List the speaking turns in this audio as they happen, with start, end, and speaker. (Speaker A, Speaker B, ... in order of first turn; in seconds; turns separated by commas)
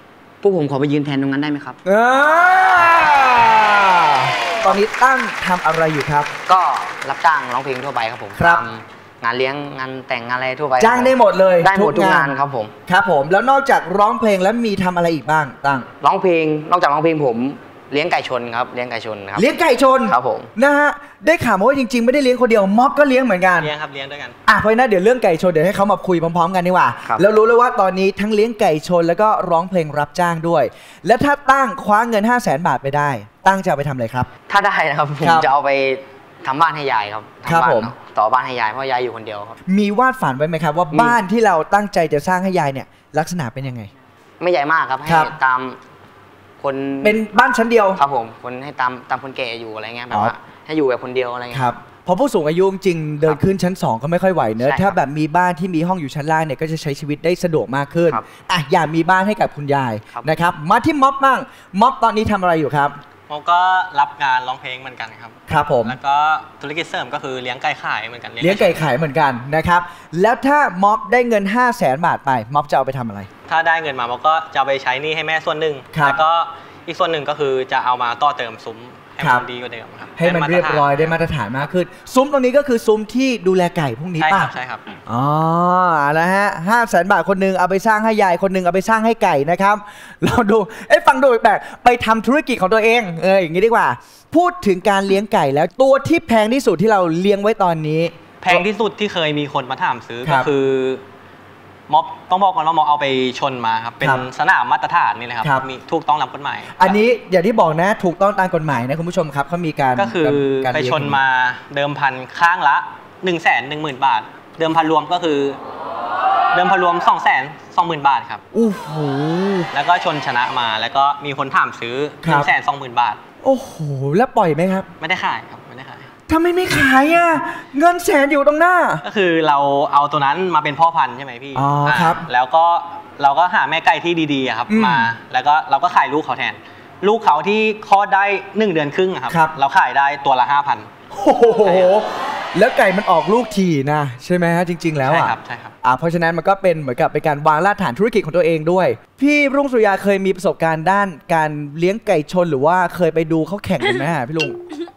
Speaker A: 0.4-1.8, Speaker B: 1.9-6.3, Speaker A: 6.5-12.7, Speaker B: 8.4-8.6, Speaker B: 10.8-12.3, Speaker B: 12.9-15.9, Speaker A: 16.0-19.5, Speaker B: 19.4-23.7, Speaker A: 20.1-20.5, Speaker C: 23.6-24.4, Speaker B: 24.5-34.3, Speaker A: 34.5-39.6, Speaker B: 35.2-35.5, Speaker B: 37.5-37.9, Speaker B: 39.7-43.9, Speaker A: 40.9-41.2, Speaker A: 44.4-45.8, Speaker B: 45.0-45.3, Speaker A: 46.6-47.2, Speaker B: 47.0-48.0, Speaker A: 48.0-51.7, Speaker B: 51.5-63.0, Speaker A: 54.6-55.0, Speaker C: 63.3-68.8, Speaker B: 65.5-66.0, Speaker B: 68.4-73.3, Speaker C: 73.5-80.9, Speaker B: 75.9-76.2, Speaker B: 80.2-84.5, Speaker C: 84.2-84.9, Speaker B: 85.1-98.7, Speaker C: 98.4-101.0, Speaker C: 101.9-107.0, Speaker B: 106.8-111.2, Speaker C: 110.0-115.6, Speaker C: 116.5-118.4, Speaker B: 118.5-119.7, Speaker C: 119.7-123.2, Speaker B: 122.2-122.5, Speaker B: 123.4-124.9, Speaker C: 125.0-126.1, Speaker B: 126.3-129.0, Speaker C: 129.0-140.9, Speaker B: 131.6-132.3, Speaker B: 134.7-135.1, Speaker B: 141.1-154.6, Speaker C: 141.6-141.9, Speaker C: 145.0-145.7